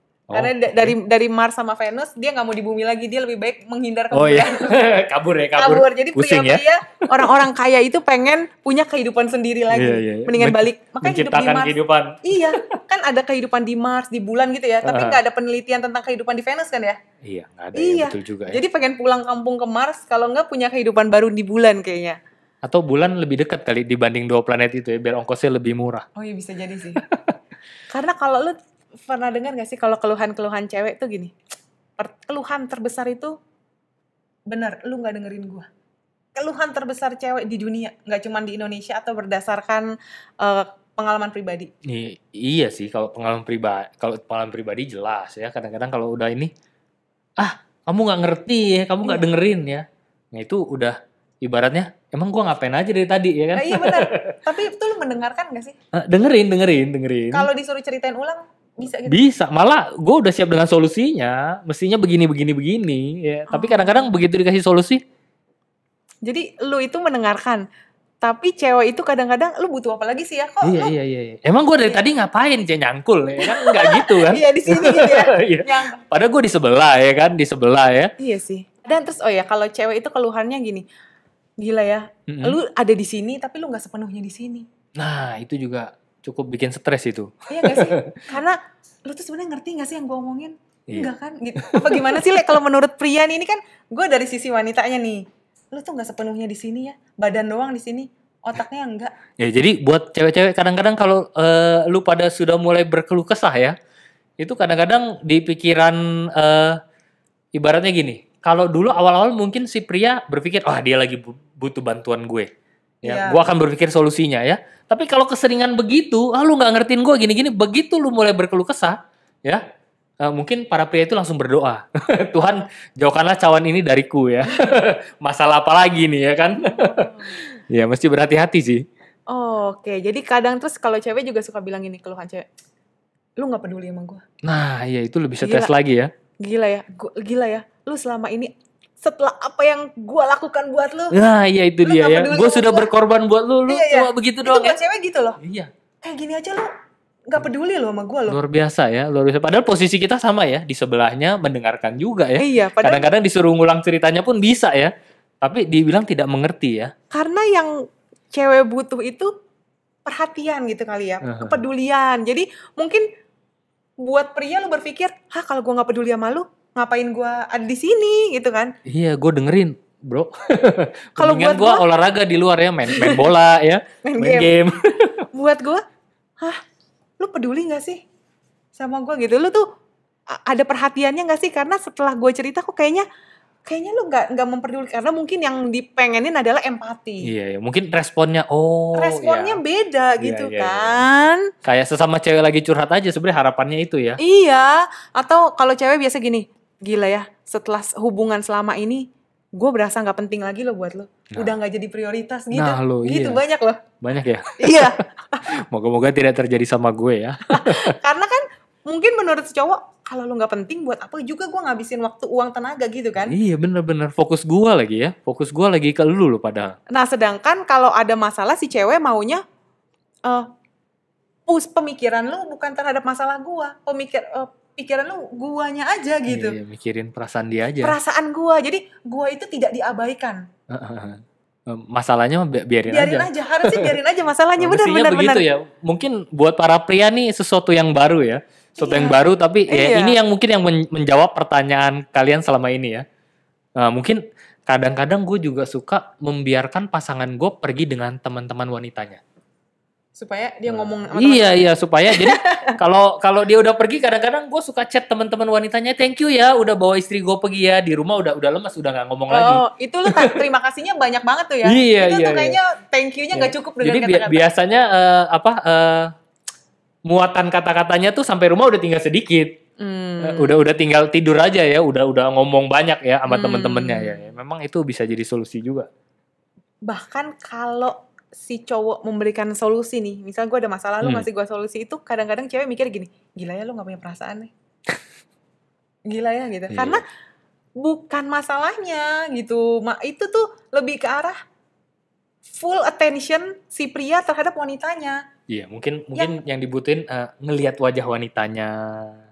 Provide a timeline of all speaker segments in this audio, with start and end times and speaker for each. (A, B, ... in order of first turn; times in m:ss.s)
0:00.3-0:01.0 A
0:00.3-0:04.7 B
0:04.1-0:07.3 A
0:05.6-0:17.0 B
0:09.7-0:12.7 A
0:14.8-0:15.2 A
0:17.2-0:18.6 A
0:17.8-0:22.2 B
0:22.6-0:26.1 A
0:26.2-0:27.0 B
0:27.0-0:27.4 A
0:27.9-0:31.3 B
0:32.0-0:33.3 B
0:34.5-0:35.7 B
0:36.4-0:41.7 B
0:41.8-0:46.5 A
0:47.4-0:54.4 A
0:53.5-0:55.8 B
0:55.9-0:57.5 A
0:57.3-0:59.2 B
0:59.1-1:05.0 A
1:03.5-1:04.2 B
1:06.3-1:07.6 B
1:08.2-1:10.9 B
1:10.6-1:18.1 A
1:13.4-1:16.0 B
1:18.2-1:20.9 B
1:21.6-1:24.7 B
1:22.3-1:22.6 A
1:25.0-1:28.2 A
1:27.5-1:39.1 B
1:30.9-1:32.2 A
1:39.4-1:43.8 A
1:44.4-1:46.8 A
1:47.5-1:52.5 A
1:53.0-1:53.4 B
1:53.0-1:59.6 A
2:00.2-2:08.9 A
2:06.6-2:07.4 B
2:09.3-2:12.5 B
2:13.4-2:14.2 B
2:14.4-2:16.1 A
2:15.4-2:15.7 B
2:16.4-2:21.2 B
2:21.1-2:24.8 A
2:21.8-2:22.9 B
2:23.7-2:25.4 B
2:25.4-2:25.7 A
2:26.0-2:26.7 B
2:27.3-2:28.4 B
2:28.3-2:36.9 A
2:32.4-2:33.1 B
2:37.1-2:37.8 B
2:38.3-2:39.3 B
2:40.0-2:43.1 B
2:41.2-2:41.6 A
2:44.0-2:48.7 B
2:48.9-2:55.2 A
2:51.2-2:51.8 B
2:52.9-2:53.2 B
2:54.0-2:54.7 B
2:55.3-2:55.8 B
2:57.2-2:58.0 B
2:58.8-2:59.6 B
3:00.3-3:03.0 B
3:03.7-3:07.3 B
3:07.2-3:09.6 A
3:09.0-3:11.5 B
3:10.2-3:11.0 A
3:11.6-3:14.2 A
3:14.2-3:23.8 B
3:22.5-3:23.4 A
3:24.0-3:24.9 A
3:24.6-3:25.5 B
3:25.5-3:27.9 A
3:27.5-3:33.4 B
3:33.3-3:36.8 A
3:36.9-3:39.4 B
3:41.5-3:46.6 B
3:46.3-3:48.0 A
3:47.8-3:50.5 B
3:50.7-3:54.0 A
3:52.9-3:55.4 B
3:54.6-4:03.0 A
3:58.8-4:00.2 B
4:03.8-4:09.2 A
4:10.2-4:12.8 B
4:10.7-4:20.4 A
4:19.3-4:24.5 B
4:21.7-4:22.6 A
4:23.3-4:26.1 A
4:27.1-4:29.6 A
4:29.8-4:30.5 B
4:30.2-4:35.9 A
4:33.3-4:34.3 B
4:36.9-4:44.5 B
4:46.1-4:47.0 B
4:46.7-4:47.0 A
4:47.8-4:51.4 B
4:52.5-4:55.2 B
4:55.5-4:59.2 A